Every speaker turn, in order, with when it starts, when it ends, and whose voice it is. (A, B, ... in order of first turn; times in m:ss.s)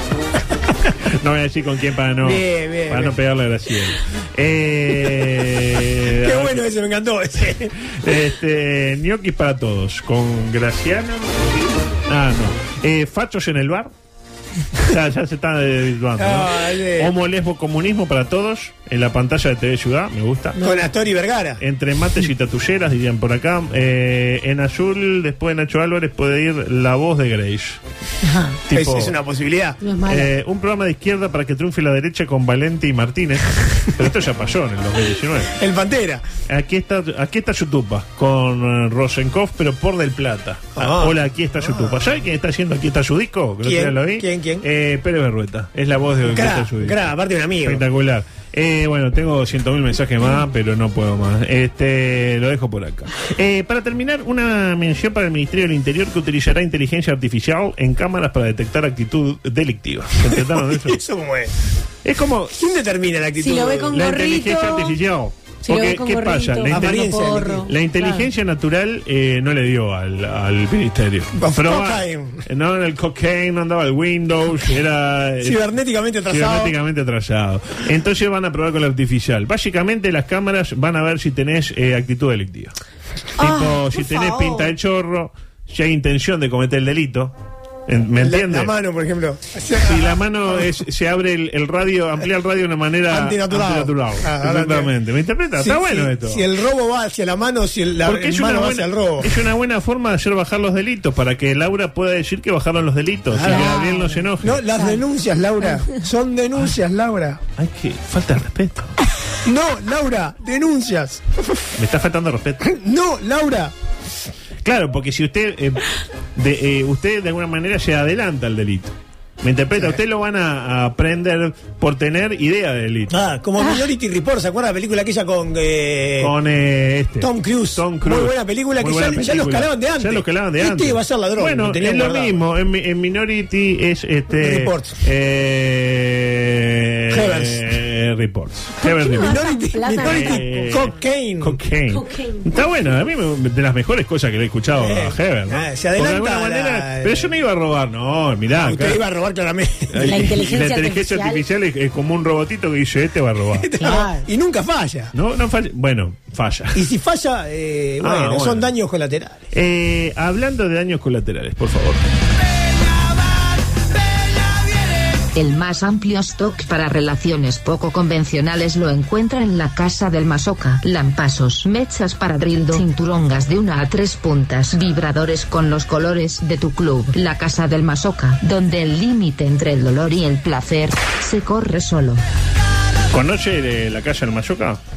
0:01.2-0:06.7 A
0:02.2-0:03.1 B
0:06.1-0:07.7 B
0:08.0-0:13.9 A
0:14.8-0:20.6 A
0:16.2-0:17.1 B
0:20.6-0:21.6 B
0:21.6-0:27.8 A
0:28.2-0:28.6 C
0:28.7-0:29.1 A
0:28.7-0:29.8 B
0:29.8-0:30.3 C
0:30.1-0:35.5 A
0:35.6-0:36.2 B
0:36.5-0:47.0 A
0:40.8-0:42.1 B
0:43.6-0:44.6 B
0:46.3-0:47.8 B
0:47.6-1:01.0 A
1:00.3-1:01.5 B
1:02.0-1:02.6 A
1:02.6-1:04.0 B
1:03.4-1:05.0 C
1:03.9-1:15.6 A
1:05.7-1:08.3 C
1:06.6-1:07.7 B
1:11.4-1:12.4 B
1:15.4-1:16.7 B
1:16.3-1:22.7 A
1:23.4-1:24.7 C
1:23.4-1:27.3 A
1:27.9-1:28.7 A
1:28.2-1:30.6 B
1:29.8-1:36.4 A
1:33.1-1:34.9 B
1:35.6-1:39.3 B
1:38.0-1:44.6 A
1:43.3-1:43.8 B
1:43.4-1:45.0 C
1:44.4-1:47.4 B
1:47.6-1:49.0 A
1:49.4-1:51.2 B
1:51.8-1:52.7 A
1:52.6-1:53.7 B
1:54.6-2:03.2 A
2:03.1-2:06.3 B
2:06.2-2:19.4 A
2:07.2-2:12.4 B
2:14.4-2:15.0 B
2:17.1-2:17.6 B
2:18.8-2:20.8 C
2:19.2-2:21.6 B
2:20.0-2:29.0 A
2:21.9-2:22.5 C
2:24.7-2:27.3 B
2:28.5-2:30.4 B
2:29.9-2:33.7 A
2:30.0-2:31.4 C
2:33.6-2:35.1 B
2:33.8-2:34.2 C
2:35.1-2:36.8 A
2:36.8-2:39.4 B
2:38.0-2:38.7 A
2:39.5-2:42.0 A
2:45.4-3:02.2 D
3:03.1-3:04.8 A